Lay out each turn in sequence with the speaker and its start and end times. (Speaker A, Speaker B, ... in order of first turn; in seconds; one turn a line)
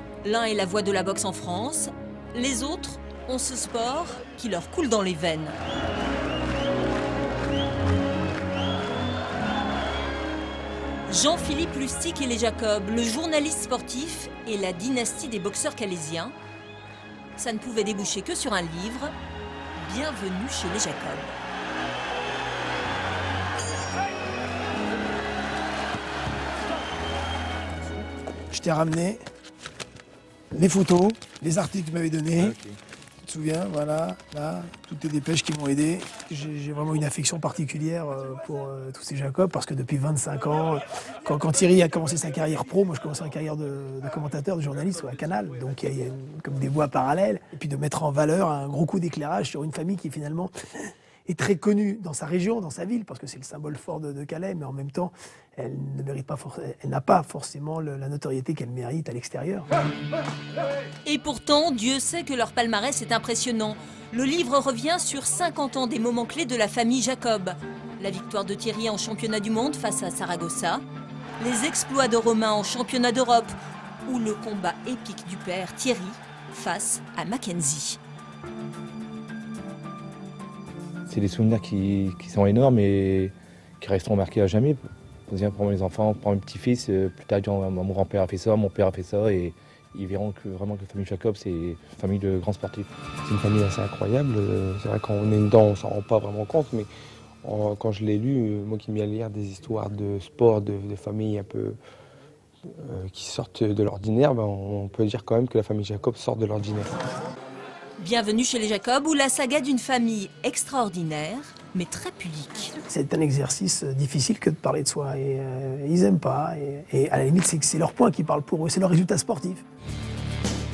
Speaker A: 0.2-5.6
Speaker A: 11.1-16.3
Speaker A: 17.4-19.1
Speaker A: 19.8-21.3
Speaker B: 28.5-29.2
Speaker B: 30.5-32.6
Speaker C: 32.4-32.8
Speaker B: 33.2-50.5
Speaker B: 51.3-59.7
Speaker A: 61.0-70.8
Speaker A: 71.4-73.5
Speaker A: 74.1-78.0
Speaker C: 81.1-92.9
Speaker D: 93.2-96.9
Speaker D: 97.4-101.8
Speaker D: 102.8-106.9
Speaker A: 108.0-112.7
Speaker B: 112.9-119.7